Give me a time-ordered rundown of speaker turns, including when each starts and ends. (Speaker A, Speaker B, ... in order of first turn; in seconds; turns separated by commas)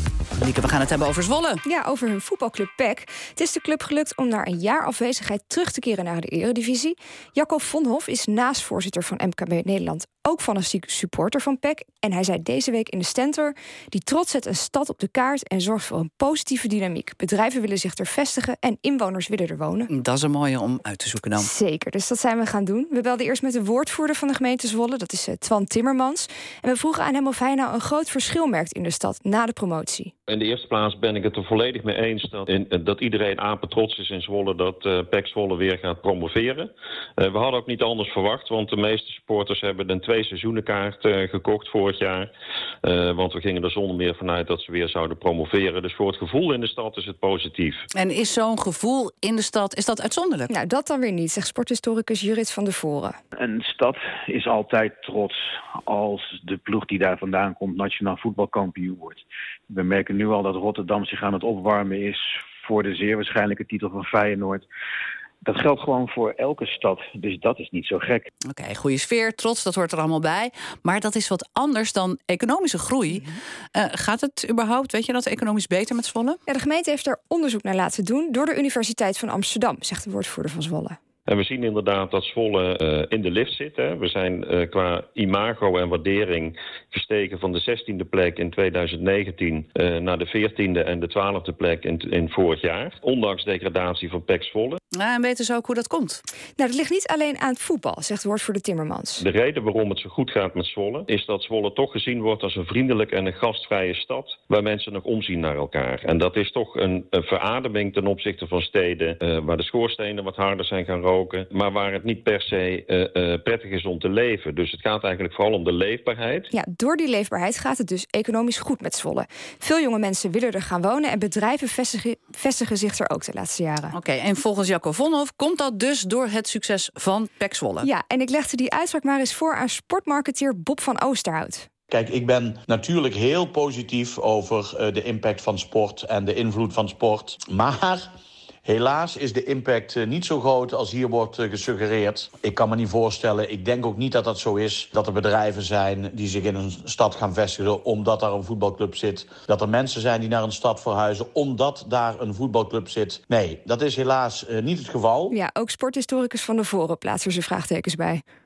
Speaker A: 0.4-1.6, Speaker B: 1.6-19.9, Speaker A: 19.9-21.5, Speaker B: 21.4-30.1, Speaker C: 30.3-42.3, Speaker C: 42.8-47.8, Speaker A: 47.9-50.5, Speaker B: 50.5-53.2, Speaker D: 53.4-64.7, Speaker D: 65.4-68.3, Speaker A: 68.5-76.4, Speaker B: 76.5-81.0, Speaker C: 81.2-94.8, Speaker A: 94.9-96.2, Speaker B: 96.6-99.2, Speaker C: 99.2-116.5, Speaker B: 116.5-124.0, Speaker A: 123.9-127.9, Speaker B: 127.8-131.7, Speaker E: 131.9-138.1, Speaker E: 138.6-155.3, Speaker B: 155.3-158.2